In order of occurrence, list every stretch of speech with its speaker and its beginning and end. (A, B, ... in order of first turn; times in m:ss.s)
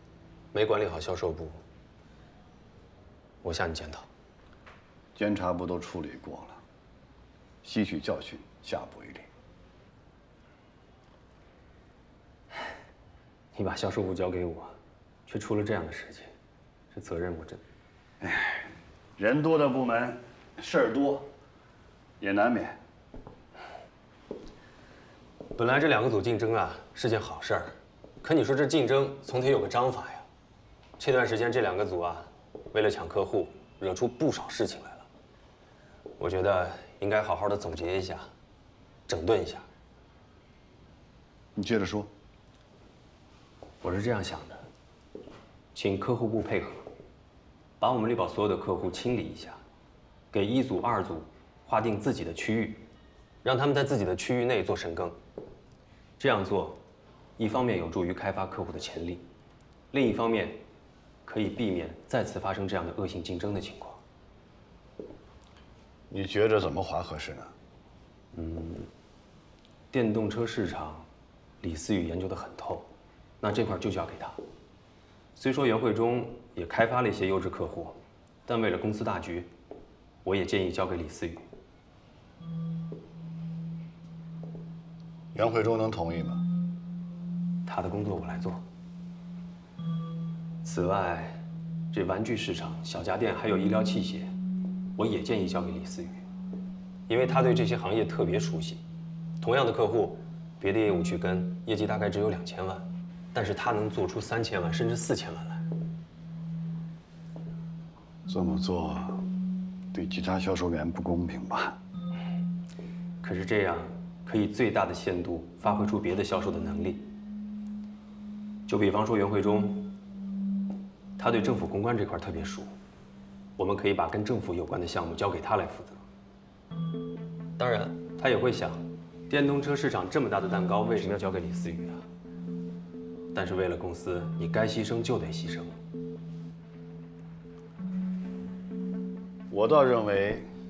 0:00.5-0:01.6 A
0:03.4-0:04.1 A
0:05.2-0:06.6 B
0:07.6-0:09.3 B
0:13.5-0:14.8 A
0:15.3-0:16.3 A
0:16.9-0:17.6 A
0:18.2-0:21.3 B
0:22.2-0:22.8 B
0:25.6-0:30.2 A
0:31.0-0:35.1 A
0:36.2-0:38.3 A
0:39.1-0:39.7 A
0:41.6-0:42.1 B
0:43.8-0:44.6 A
0:45.7-0:46.8 A
0:47.8-0:49.6 A
0:50.3-0:52.8 A
0:53.4-0:55.2 A
0:56.2-0:56.8 A
0:57.4-0:59.2 A
0:59.9-1:00.6 A
1:01.2-1:04.0 A
1:06.1-1:07.5 B
1:08.3-1:08.9 A
1:09.9-1:11.1 A
1:11.6-1:12.9 A
1:13.4-1:14.4 A
1:15.4-1:19.5 A
1:20.2-1:21.4 A
1:25.3-1:26.4 B
1:27.7-1:28.6 A
1:30.6-1:31.4 A
1:31.9-1:34.3 A
1:35.0-1:36.2 A
1:37.1-1:38.8 A
1:39.4-1:45.6 A
1:48.3-1:49.2 B
1:49.9-1:51.8 B
1:53.2-1:57.1 A
1:58.7-1:59.9 A
2:01.2-2:02.7 A
2:03.6-2:06.0 A
2:07.6-2:12.0 A
2:13.3-2:15.7 A
2:19.5-2:20.5 B